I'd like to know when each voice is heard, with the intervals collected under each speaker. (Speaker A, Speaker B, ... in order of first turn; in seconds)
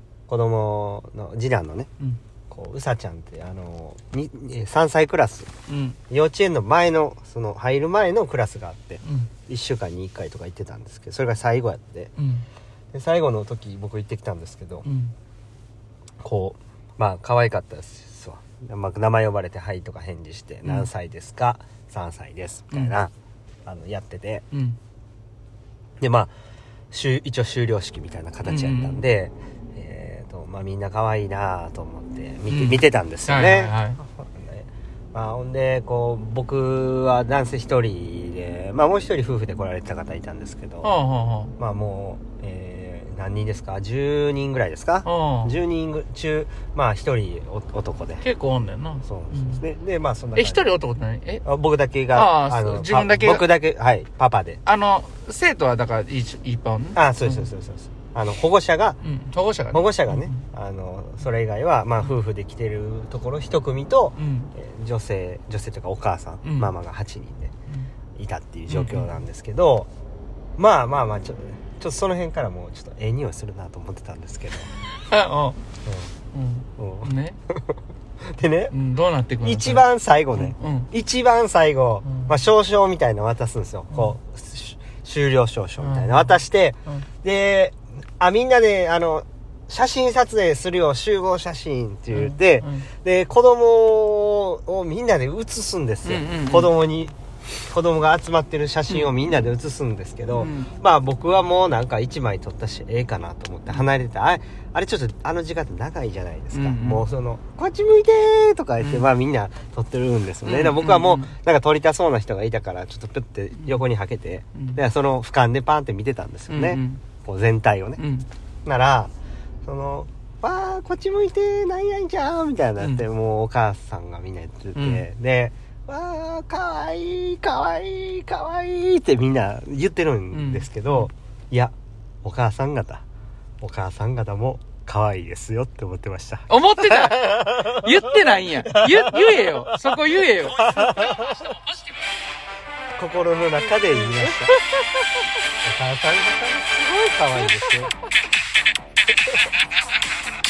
Speaker A: 0.3-1.9, 2.5-5.5, 6.1-12.1, 12.9-14.9, 16.2-23.1, 23.6-24.4, 26.0-26.3, 26.9-40.9, 41.6-48.2, 49.0-50.6, 51.4-54.6, 56.9-59.0, 59.7-67.5, 68.1-69.9, 70.6-74.7, 75.8-76.1, 76.8-77.7, 78.2-78.7, 79.4-97.1, 97.7-118.0, 118.7-119.1, 119.6-133.0, 133.6-141.6, 143.0-144.5, 145.6-147.9
Speaker B: 5.7-6.0, 9.0-9.3, 12.2-12.4, 14.8-15.1, 20.6-20.9, 24.5-24.8, 28.4-29.0, 32.5-34.0, 40.8-41.5, 45.0-45.6, 48.2-49.6, 50.4-51.4, 52.1-53.4, 54.6-57.5, 59.0-60.4, 64.2-64.5, 66.4-66.7, 68.7-69.1, 75.0-75.6, 76.3-77.4, 78.7-80.9, 82.0-82.3, 85.8-87.0, 92.1-92.9, 96.0-96.7, 98.9-99.4, 100.3-100.7, 106.5-107.0, 108.8-109.1, 110.4-111.3, 114.5-114.8, 116.5-117.0, 118.0-118.3, 124.7-125.0, 130.3-131.1, 136.5-141.6, 143.9-144.6